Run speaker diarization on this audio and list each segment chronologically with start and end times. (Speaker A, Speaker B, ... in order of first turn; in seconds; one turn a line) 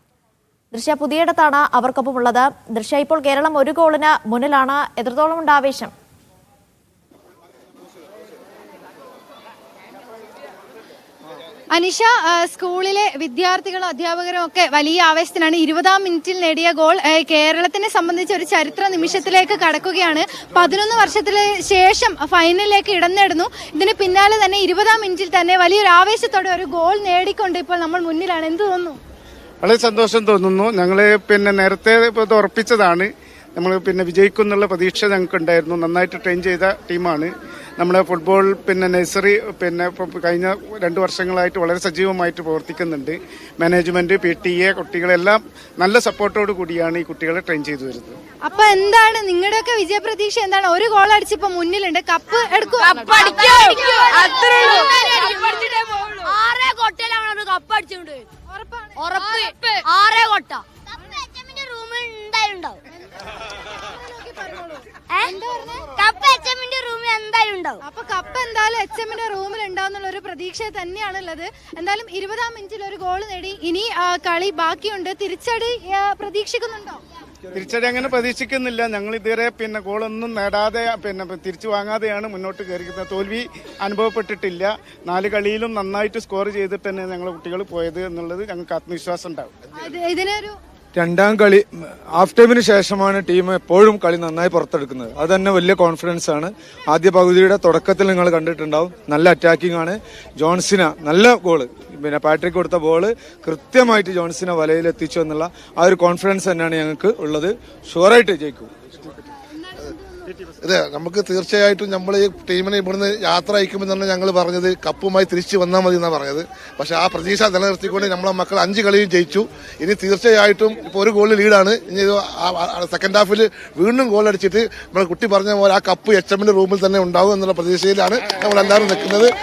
Speaker A: 0.7-5.9
Speaker B: 11.7-29.0
Speaker C: 29.6-48.2
Speaker B: 48.5-56.3
Speaker D: 52.8-58.2
Speaker B: 58.5-59.8
Speaker D: 59.0-60.6
Speaker D: 61.3-62.8
Speaker B: 63.8-66.0
Speaker D: 66.0-67.8
Speaker B: 67.8-77.0
Speaker C: 77.5-89.5
Speaker B: 89.8-90.6
Speaker E: 91.0-108.7
Speaker B: 109.6-110.3
Speaker F: 110.6-129.3